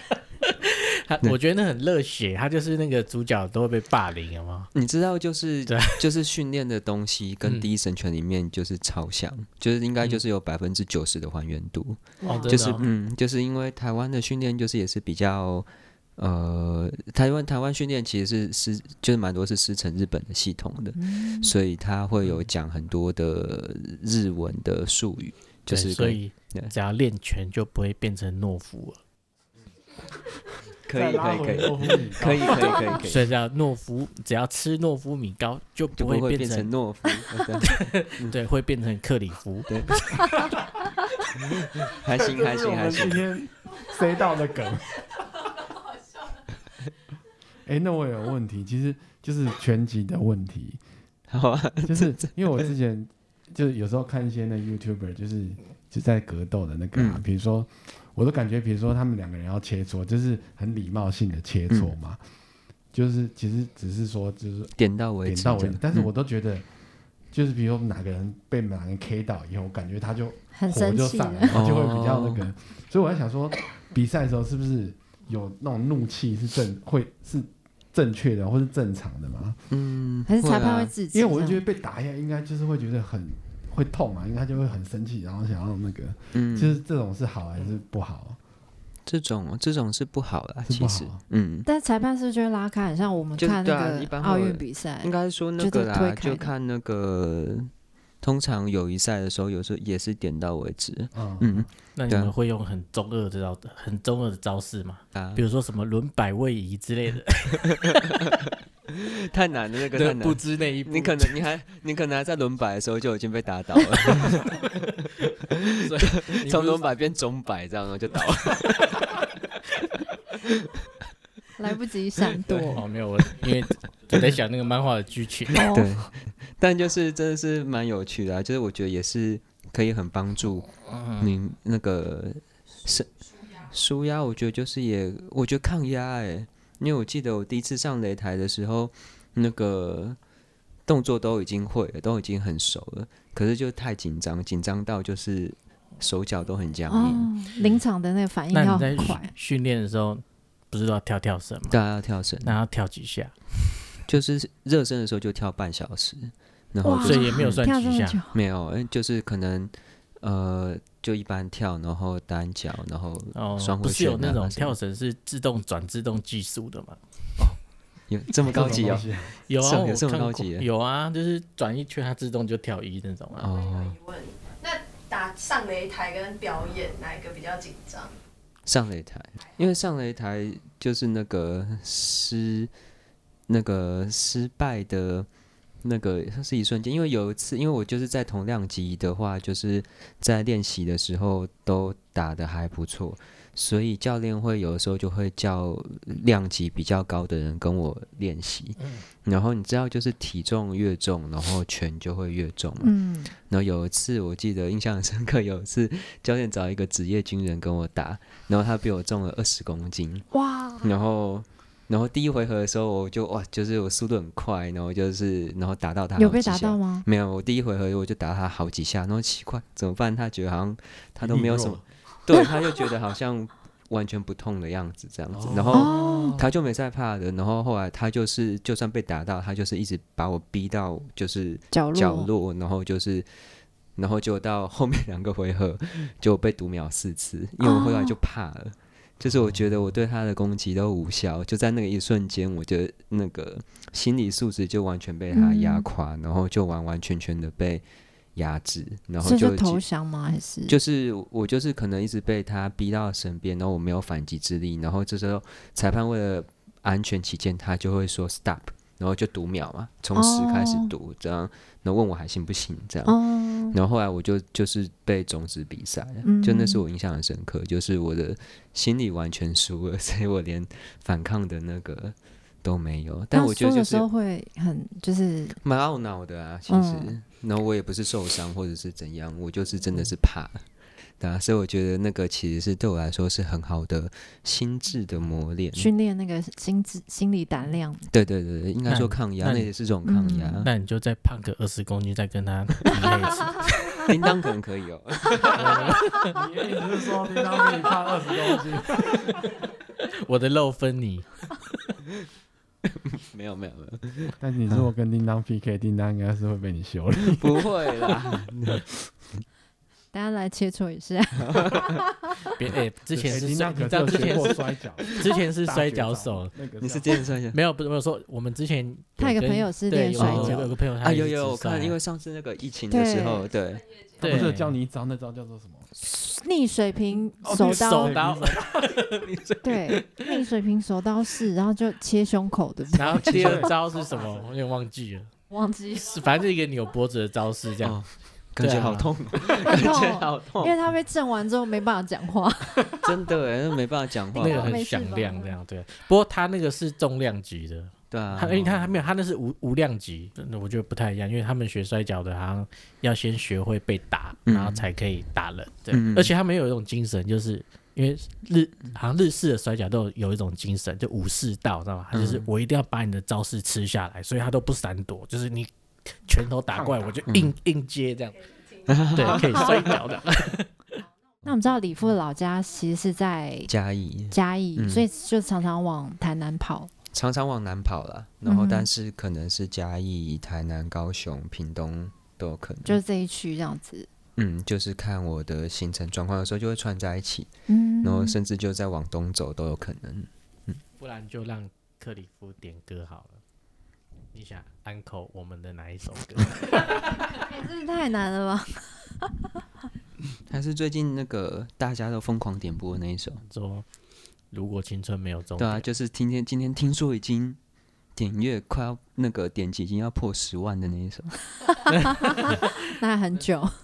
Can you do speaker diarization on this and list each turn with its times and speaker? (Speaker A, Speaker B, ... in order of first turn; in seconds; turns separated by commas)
Speaker A: 0.4-4.7, Speaker B: 4.7-26.7, Speaker A: 5.7-6.0, Speaker C: 12.2-12.8, Speaker A: 12.3-12.8, Speaker C: 20.9-21.5, Speaker A: 25.7-29.0, Speaker B: 30.8-33.3, Speaker D: 30.9-33.0, Speaker A: 33.0-36.7, Speaker B: 35.9-38.4, Speaker A: 37.7-39.8, Speaker B: 39.7-40.0, Speaker D: 41.6-45.0, Speaker B: 41.8-43.2, Speaker D: 47.6-50.8, Speaker B: 51.3-52.7, Speaker D: 51.8-62.2, Speaker B: 56.9-57.2, Speaker D: 62.9-66.7, Speaker B: 64.8-66.1, Speaker D: 67.3-79.6, Speaker C: 70.5-71.6, Speaker B: 71.5-72.5, Speaker B: 79.7-80.9, Speaker C: 80.3-81.6, Speaker D: 81.1-88.4, Speaker B: 86.3-86.8, Speaker B: 89.0-91.7, Speaker D: 90.7-91.2, Speaker C: 91.6-96.5, Speaker B: 93.4-97.7, Speaker B: 98.2-102.3, Speaker D: 101.1-101.7, Speaker A: 101.9-107.8, Speaker B: 105.1-105.4, Speaker B: 107.7-108.2, Speaker B: 108.9-119.3, Speaker A: 109.9-111.4, Speaker A: 115.8-116.9, Speaker C: 121.6-122.8, Speaker A: 122.5-125.5, Speaker C: 125.5-125.9, Speaker B: 125.5-140.2, Speaker A: 130.8-131.3, Speaker B: 140.9-147.3, Speaker C: 146.9-149.3, Speaker A: 148.5-151.8, Speaker B: 151.7-152.6, Speaker A: 152.4-153.5, Speaker B: 154.1-157.6, Speaker C: 156.8-158.4, Speaker A: 156.9-158.2, Speaker B: 158.3-164.7, Speaker A: 163.3-167.0, Speaker B: 168.1-169.1, Speaker D: 168.4-169.3, Speaker A: 169.5-173.5, Speaker B: 169.6-170.7, Speaker B: 173.4-174.0, Speaker E: 174.0-178.0, Speaker B: 178.7-182.7, Speaker B: 183.5-185.3, Speaker B: 185.8-210.2, Speaker C: 202.8-203.3, Speaker C: 210.3-210.9, Speaker B: 210.8-233.3, Speaker C: 216.2-217.1, Speaker D: 221.2-221.8, Speaker D: 225.3-226.5, Speaker C: 225.7-226.4, Speaker C: 231.7-232.3, Speaker B: 233.9-247.8, Speaker C: 237.6-238.2, Speaker C: 245.3-245.9, Speaker B: 248.3-249.8, Speaker C: 249.2-250.8, Speaker B: 250.7-263.2, Speaker C: 260.1-260.9, Speaker C: 263.1-263.8, Speaker B: 263.7-274.1, Speaker C: 266.2-266.8, Speaker C: 273.3-275.6, Speaker B: 275.6-280.6, Speaker C: 276.7-277.2, Speaker B: 281.2-285.9, Speaker C: 285.7-288.1, Speaker B: 288.1-290.7, Speaker A: 288.9-289.7, Speaker C: 290.0-290.7, Speaker A: 290.6-294.0, Speaker B: 293.9-296.0, Speaker A: 295.5-296.3, Speaker D: 295.6-299.4, Speaker A: 300.0-301.5, Speaker B: 303.0-304.9, Speaker D: 304.4-308.2, Speaker B: 307.4-308.9, Speaker C: 310.1-312.3, Speaker B: 311.4-311.9, Speaker A: 312.4-316.5, Speaker D: 313.1-317.2, Speaker B: 316.8-317.6, Speaker A: 317.5-322.0, Speaker C: 319.2-320.7, Speaker B: 320.2-323.9, Speaker C: 322.9-323.5, Speaker A: 324.2-324.7, Speaker D: 324.2-325.9, Speaker C: 326.0-328.2, Speaker D: 327.4-328.7, Speaker A: 327.5-330.4, Speaker C: 329.6-333.7, Speaker A: 332.9-335.3, Speaker D: 333.1-334.5, Speaker C: 335.5-336.2, Speaker A: 335.9-338.0, Speaker B: 337.8-340.8, Speaker A: 338.6-339.1, Speaker C: 339.5-343.1, Speaker B: 343.0-344.8, Speaker C: 344.3-345.6, Speaker A: 344.4-368.4, Speaker B: 348.1-349.0, Speaker B: 354.4-354.8, Speaker B: 355.9-356.3, Speaker B: 362.1-362.5, Speaker D: 366.8-367.0, Speaker B: 367.3-367.5, Speaker B: 368.9-369.8, Speaker A: 369.1-371.0, Speaker C: 369.2-369.9, Speaker C: 371.4-373.7, Speaker B: 373.7-375.1, Speaker C: 374.3-376.9, Speaker B: 377.1-383.0, Speaker C: 378.4-378.9, Speaker C: 382.8-384.1, Speaker B: 384.4-387.5, Speaker C: 387.7-388.4, Speaker B: 388.0-390.8, Speaker A: 391.0-393.4, Speaker A: 394.3-397.3, Speaker C: 397.3-399.3, Speaker B: 400.5-403.4, Speaker A: 403.5-403.9, Speaker A: 404.5-405.9, Speaker B: 405.6-407.6, Speaker B: 408.1-411.4, Speaker C: 412.2-413.7